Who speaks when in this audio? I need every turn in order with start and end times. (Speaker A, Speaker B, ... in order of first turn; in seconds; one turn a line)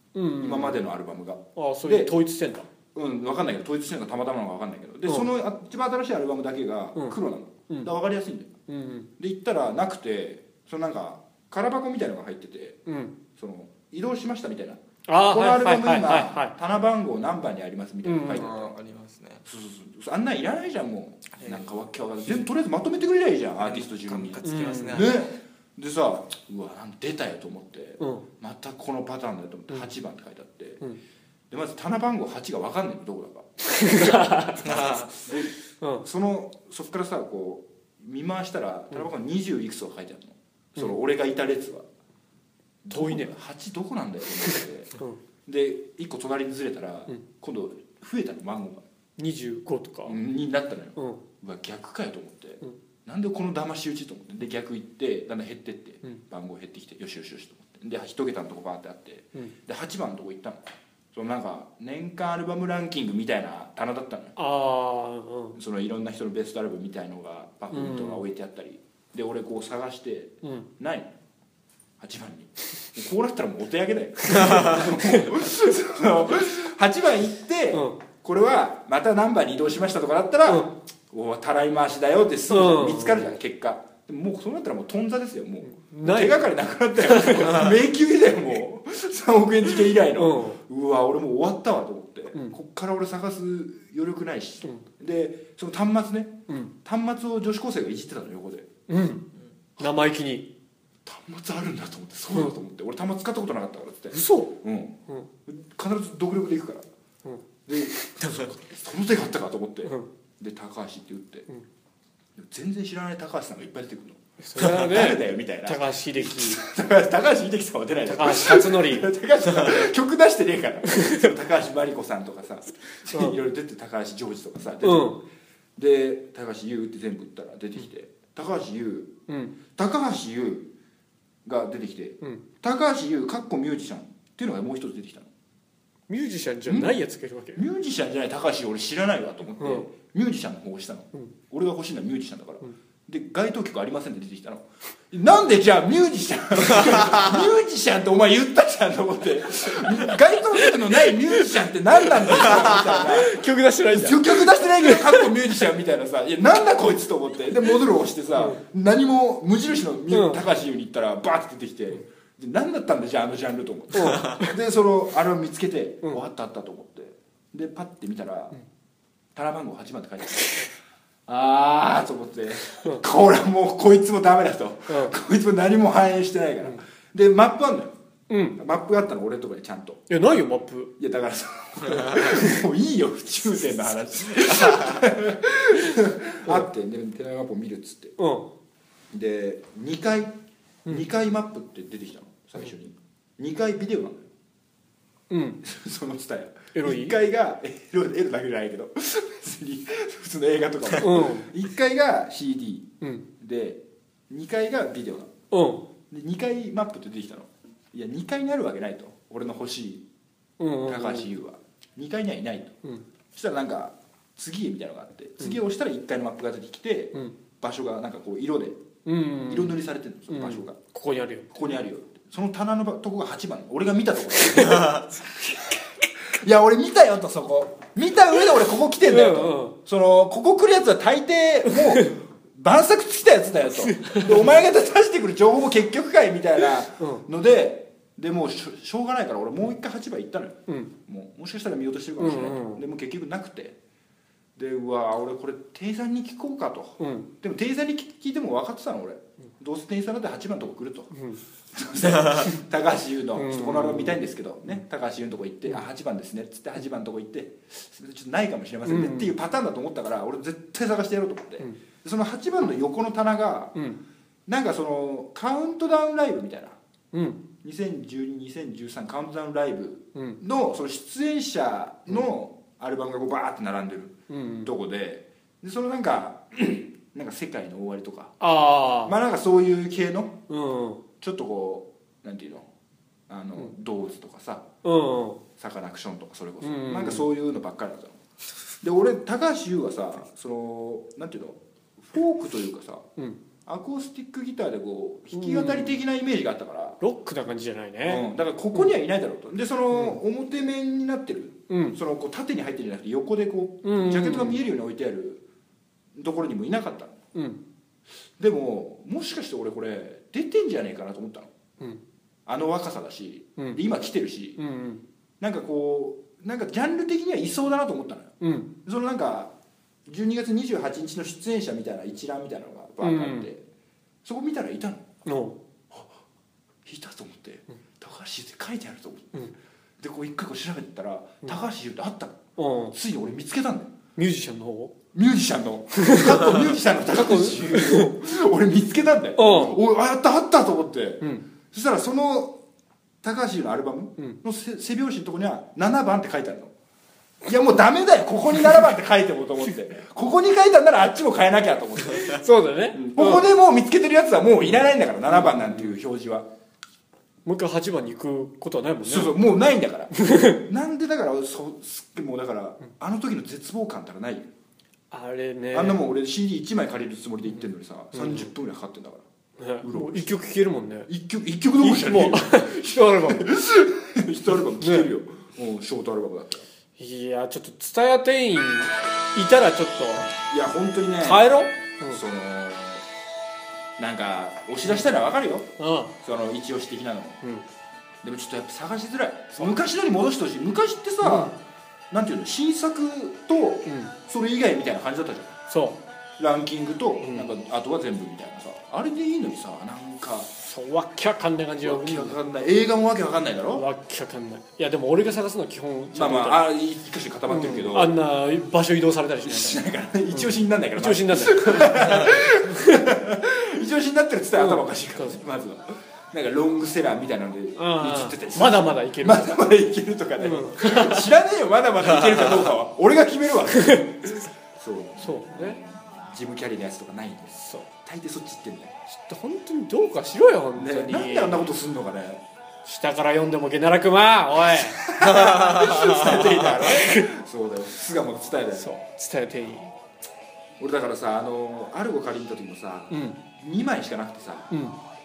Speaker A: 0.1-0.8
Speaker B: 0.4-2.1
Speaker A: 1.6-2.7
Speaker B: 2.9-8.5
Speaker A: 8.7-9.1
Speaker B: 9.2-12.8
Speaker A: 12.8-13.1
Speaker B: 13.4-18.7
Speaker A: 15.1-16.5
Speaker A: 18.0-18.5
Speaker C: 18.3-19.4
Speaker B: 19.4-30.8
Speaker C: 21.4-21.7
Speaker C: 23.6-25.2
Speaker A: 24.4-25.1
Speaker A: 28.0-28.2
Speaker B: 31.5-41.9
Speaker A: 33.7-34.6
Speaker C: 34.6-35.2
Speaker A: 35.8-36.0
Speaker B: 42.8-44.9
Speaker A: 42.9-43.3
Speaker A: 44.4-45.2
Speaker B: 45.5-48.8
Speaker A: 49.2-50.2
Speaker B: 50.0-60.6
Speaker A: 51.0-51.2
Speaker B: 61.1-64.3
Speaker A: 64.3-65.6
Speaker B: 65.5-71.1
Speaker A: 67.7-68.2
Speaker A: 70.4-70.7
Speaker B: 72.0-98.7
Speaker A: 74.2-75.3
Speaker A: 77.7-78.0
Speaker A: 80.5-80.7
Speaker A: 82.5-83.4
Speaker A: 85.6-86.5
Speaker A: 87.0-87.7
Speaker A: 90.2-90.6
Speaker A: 96.5-96.7
Speaker A: 98.9-99.2
Speaker A: 99.8-100.5
Speaker B: 101.0-106.8
Speaker A: 104.1-104.5
Speaker B: 107.7-111.5
Speaker C: 108.2-108.5
Speaker B: 112.3-125.2
Speaker A: 114.4-116.6
Speaker A: 118.1-119.1
Speaker A: 120.9-121.3
Speaker A: 123.1-123.3
Speaker A: 124.8-125.2
Speaker B: 125.8-129.1
Speaker A: 129.3-129.6
Speaker B: 129.7-130.7
Speaker B: 131.4-135.3
Speaker A: 136.1-137.6
Speaker B: 136.7-137.0
Speaker B: 137.5-168.6
Speaker A: 139.6-139.9
Speaker A: 149.8-151.1
Speaker A: 152.0-155.3
Speaker A: 158.3-158.6
Speaker A: 160.1-160.4
Speaker A: 163.9-164.5
Speaker B: 169.3-170.6
Speaker B: 171.3-177.9
Speaker A: 174.9-175.2
Speaker A: 178.3-178.6
Speaker B: 178.6-180.0
Speaker A: 180.1-180.9
Speaker B: 181.0-188.2
Speaker A: 188.2-188.5
Speaker B: 189.1-194.3
Speaker A: 195.3-195.6
Speaker B: 195.6-205.3
Speaker A: 196.7-197.2
Speaker A: 201.0-201.5
Speaker A: 203.0-203.2
Speaker A: 205.5-205.9
Speaker B: 206.1-210.1
Speaker A: 210.6-211.3
Speaker B: 210.8-212.8
Speaker B: 213.3-218.8
Speaker A: 219.0-221.5
Speaker B: 219.4-220.8
Speaker B: 221.5-243.8
Speaker A: 224.5-225.0
Speaker A: 229.1-229.8
Speaker A: 231.7-232.1
Speaker A: 233.8-234.5
Speaker A: 237.0-237.2
Speaker A: 242.2-242.8
Speaker B: 244.6-251.1
Speaker A: 247.0-247.3
Speaker A: 251.1-251.4
Speaker B: 251.7-263.7
Speaker A: 253.3-254.2
Speaker A: 258.8-259.3
Speaker A: 263.7-264.0
Speaker B: 264.5-266.8
Speaker A: 267.1-267.4
Speaker B: 267.6-278.3
Speaker A: 274.3-274.7
Speaker A: 278.4-279.1
Speaker B: 279.1-280.4
Speaker A: 280.5-281.0
Speaker B: 281.2-282.7
Speaker B: 283.3-284.7
Speaker A: 284.8-285.4
Speaker B: 285.6-288.2
Speaker A: 286.6-287.3
Speaker B: 288.8-293.1
Speaker B: 293.6-297.0
Speaker A: 295.3-296.0
Speaker A: 297.0-298.9
Speaker B: 298.1-305.4
Speaker A: 299.9-300.2
Speaker A: 301.7-302.0
Speaker A: 303.8-304.6
Speaker B: 306.1-307.2
Speaker A: 307.3-307.6
Speaker B: 308.4-311.5
Speaker B: 312.4-314.6
Speaker A: 314.6-315.0
Speaker B: 315.4-318.3
Speaker A: 318.4-318.7
Speaker B: 318.8-319.5
Speaker B: 320.1-323.6
Speaker A: 323.0-323.5
Speaker B: 324.2-325.1
Speaker A: 325.2-325.6
Speaker B: 325.9-326.2
Speaker B: 326.8-329.5
Speaker B: 330.0-332.4
Speaker A: 332.6-333.0
Speaker B: 332.9-333.9
Speaker A: 334.1-334.9
Speaker B: 335.1-342.6
Speaker A: 336.0-336.6
Speaker A: 337.1-338.1
Speaker A: 339.4-339.8
Speaker B: 343.2-346.7
Speaker B: 347.4-352.4
Speaker A: 352.3-353.5
Speaker B: 352.9-356.5
Speaker A: 355.3-356.0
Speaker A: 357.4-359.4
Speaker B: 359.0-364.5
Speaker A: 360.1-360.6
Speaker A: 365.1-366.0
Speaker B: 365.7-369.2
Speaker A: 367.5-368.5
Speaker A: 369.6-371.1
Speaker B: 369.8-370.3
Speaker B: 371.1-376.7
Speaker A: 371.8-373.5
Speaker A: 374.8-375.1
Speaker A: 377.0-380.3
Speaker B: 380.5-381.5
Speaker A: 381.2-382.2
Speaker B: 382.1-383.0
Speaker B: 384.0-385.7
Speaker A: 384.8-385.2
Speaker A: 385.8-386.1
Speaker B: 386.2-387.4
Speaker B: 388.2-391.5
Speaker A: 391.2-391.6
Speaker B: 392.1-395.6
Speaker A: 393.9-394.1
Speaker A: 395.7-396.0
Speaker B: 396.4-400.5
Speaker A: 397.2-397.5
Speaker A: 400.7-402.4
Speaker B: 401.8-403.9
Speaker A: 403.7-406.6
Speaker B: 406.1-408.2
Speaker A: 407.5-413.0
Speaker B: 409.4-428.9
Speaker A: 414.6-415.4
Speaker A: 417.8-419.5
Speaker A: 420.4-421.3
Speaker A: 423.8-424.0
Speaker A: 425.2-425.8
Speaker A: 427.6-427.9
Speaker A: 429.1-431.7
Speaker B: 430.8-432.4
Speaker A: 432.8-437.3
Speaker B: 434.7-438.9
Speaker A: 438.7-439.9
Speaker B: 440.8-444.7
Speaker A: 443.1-443.4
Speaker A: 444.7-445.0